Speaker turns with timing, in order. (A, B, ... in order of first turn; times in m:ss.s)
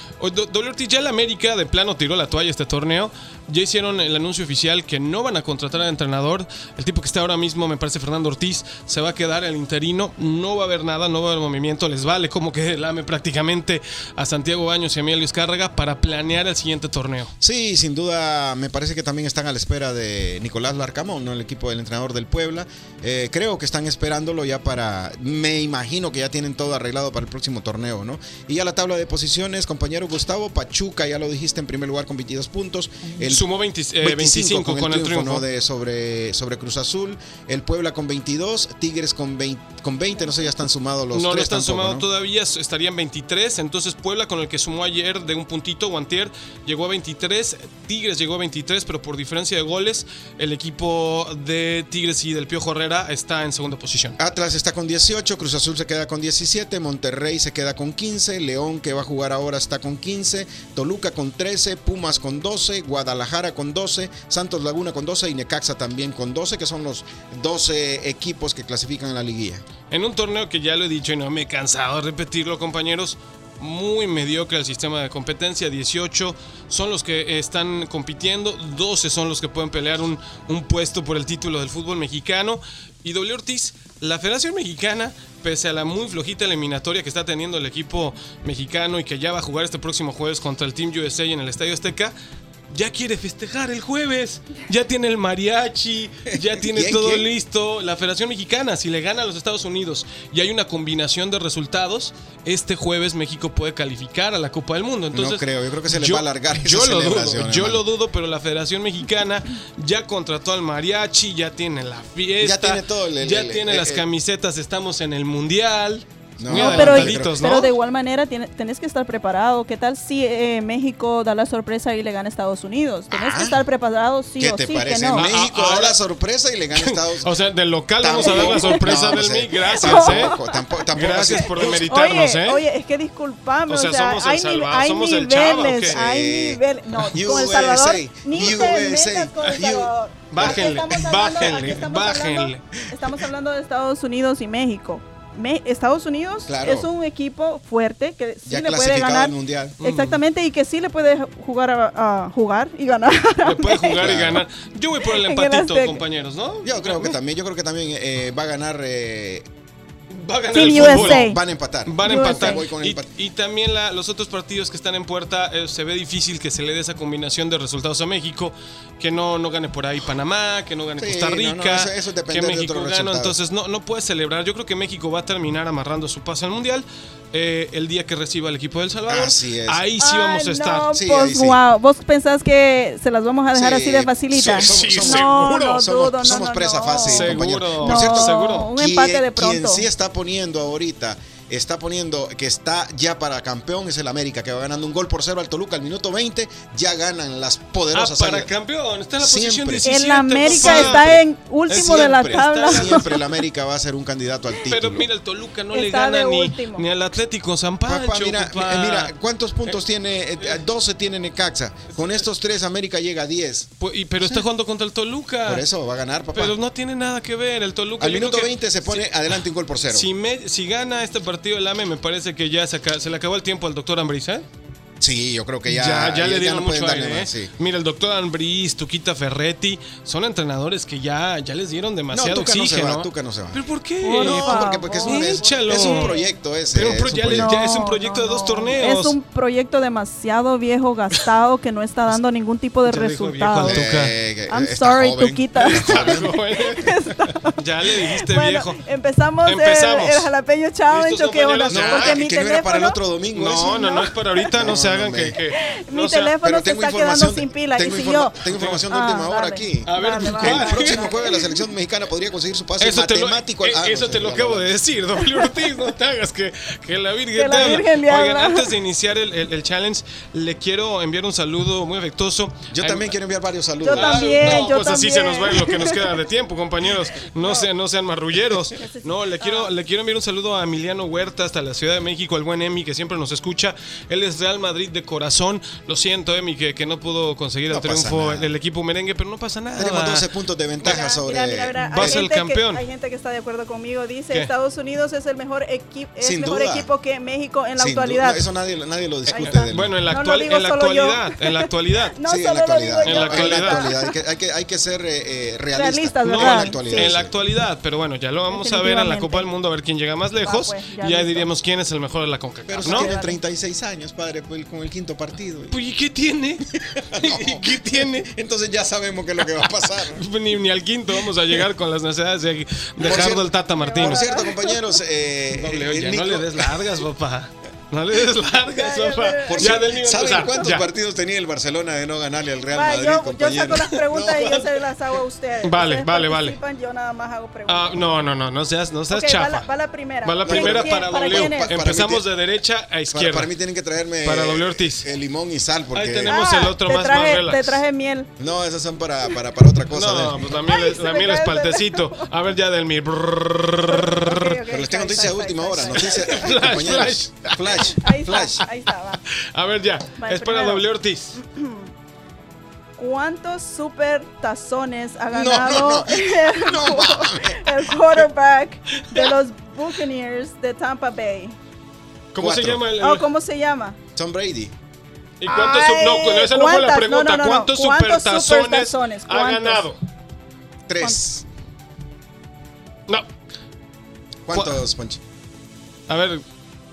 0:00.2-0:17.3 A
0:17.4-0:33.5 B
0:33.2-0:35.4 A
0:34.0-0:42.0 B
0:41.1-0:54.2 A
0:54.2-1:09.6 B
1:09.9-1:32.1 A
1:32.7-1:57.7 A
1:36.3-1:37.3 B
1:45.1-1:47.8 B
1:52.4-1:54.0 B
1:56.4-1:57.4 B
1:56.5-2:05.3 C
2:03.1-2:03.6 B
2:04.4-2:07.3 B
2:05.1-2:06.0 A
2:06.7-2:10.4 A
2:08.0-2:11.9 B
2:08.2-2:09.0 C
2:09.7-2:34.1 C
2:10.9-2:12.6 A
2:13.7-2:16.0 A
2:15.9-2:20.7 B
2:20.3-2:22.6 A
2:26.5-2:26.9 B
2:28.5-2:29.8 B
2:29.8-2:30.2 A
2:33.4-2:37.2 A
2:34.0-2:34.4 B
2:35.1-2:36.0 C
2:36.6-2:39.5 B
2:40.1-2:41.3 A
2:40.5-2:41.4 C
2:40.6-2:43.1 B
2:41.9-3:00.9 A
2:42.0-2:42.6 C
2:51.0-2:53.4 B
2:59.1-2:59.8 B
3:00.0-3:09.8 C
3:00.9-3:01.6 B
3:03.5-3:18.5 B
3:04.4-3:05.9 A
3:07.0-3:08.7 A
3:17.9-3:21.2 A
3:19.2-3:25.1 B
3:19.8-3:23.1 C
3:21.7-3:23.3 A
3:24.6-3:29.1 A
3:25.7-3:26.8 C
3:27.9-3:33.7 B
3:33.8-3:35.6 A
3:35.5-3:36.6 B
3:36.4-3:39.1 A
3:38.0-3:40.1 B
3:39.9-3:44.4 A
3:45.0-3:47.5 B
3:45.7-3:56.1 A
3:52.1-3:53.6 B
3:54.0-3:56.3 C
3:54.2-3:57.6 B
3:56.7-3:59.2 A
3:57.3-4:03.8 C
4:02.9-4:04.2 A
4:03.6-4:06.3 B
4:04.5-4:13.0 C
4:05.6-4:07.0 A
4:07.5-4:08.8 A
4:09.4-4:10.3 A
4:10.9-4:12.2 A
4:11.7-4:13.9 B
4:13.4-4:16.3 A
4:13.6-4:14.6 C
4:14.5-4:15.4 B
4:15.5-4:21.6 C
4:16.4-4:24.8 B
4:18.5-4:18.8 A
4:19.9-4:21.1 A
4:22.8-4:33.1 A
4:27.4-4:28.7 C
4:32.7-4:34.7 B
4:33.8-4:36.1 C
4:33.9-4:50.3 A
4:37.4-4:37.7 C
4:38.8-4:39.7 C
4:47.7-4:48.5 B
4:49.8-4:52.3 B
4:50.8-4:58.4 C
4:51.8-4:52.8 A
4:56.2-4:56.9 B
4:57.8-5:00.0 B
4:59.3-5:02.2 A
4:59.3-5:04.2 C
5:02.2-5:07.3 B
5:03.0-5:03.9 A
5:05.7-5:07.2 C
5:06.2-5:13.1 A
5:08.5-5:09.5 C
5:10.4-5:11.5 C
5:12.7-5:15.8 B
5:12.8-5:13.4 C
5:15.7-5:18.3 A
5:16.9-5:20.2 B
5:20.0-5:24.3 A
5:23.0-5:26.9 B
5:23.8-5:24.8 C
5:25.5-5:30.8 A
5:28.7-5:29.8 C
5:29.5-5:34.5 B
5:32.7-5:38.0 C
5:34.1-5:34.6 A
5:35.6-5:36.6 A
5:37.7-5:39.7 A
5:39.1-5:41.7 C
5:40.2-5:43.5 A
5:40.4-5:42.2 B
5:43.1-5:46.5 B
5:44.2-5:45.1 A
5:45.9-5:47.8 A
5:46.3-5:48.3 C
5:48.4-5:50.5 B
5:49.9-5:54.6 A
5:50.6-5:52.3 C
5:53.9-5:56.5 C
5:54.7-5:58.6 B
5:56.0-5:58.6 A
5:57.8-5:59.2 C
5:59.4-6:01.4 A
6:00.2-6:00.8 C
6:01.4-6:01.9 C
6:03.0-6:11.6 C
6:05.3-6:07.8 B
6:12.3-6:13.3 A
6:12.4-6:12.8 B
6:13.0-6:14.0 C
6:14.2-6:14.7 B
6:15.4-6:20.0 A
6:15.5-6:19.8 C
6:20.9-6:21.4 B
6:24.5-6:25.2 B
6:24.5-6:24.8 A
6:26.1-6:26.4 A